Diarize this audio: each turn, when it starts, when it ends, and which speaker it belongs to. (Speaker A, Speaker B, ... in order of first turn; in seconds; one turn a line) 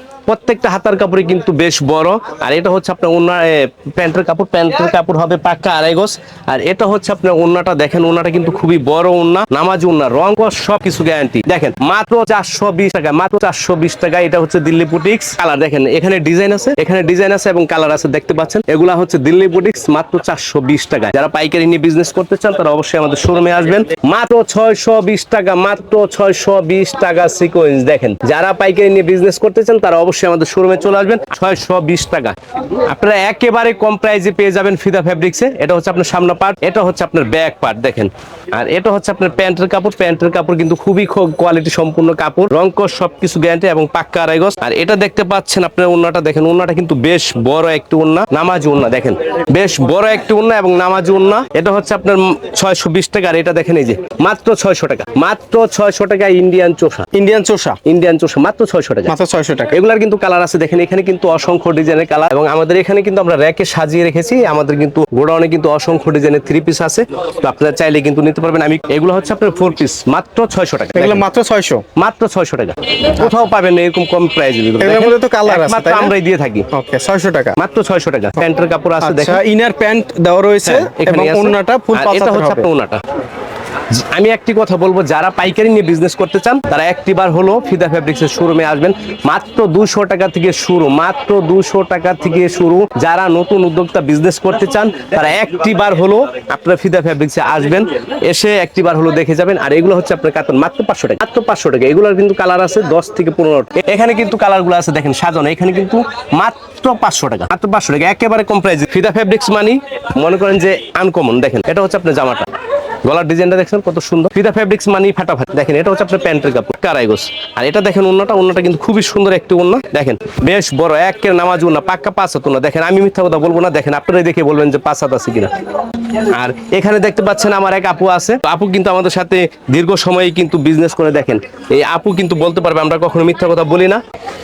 Speaker A: 0.3-57.1
Speaker B: 57.1-57.8
Speaker A: 57.9-59.1
Speaker B: 59.1-59.8
Speaker A: 59.7-71.2
Speaker B: 71.0-71.8
Speaker A: 72.0-76.7
Speaker B: 74.8-76.1
Speaker B: 76.7-77.6
Speaker A: 77.6-79.4
Speaker B: 79.0-82.7
Speaker A: 80.7-83.0
Speaker A: 83.9-112.5
Speaker A: 113.0-125.5
Speaker A: 126.2-134.0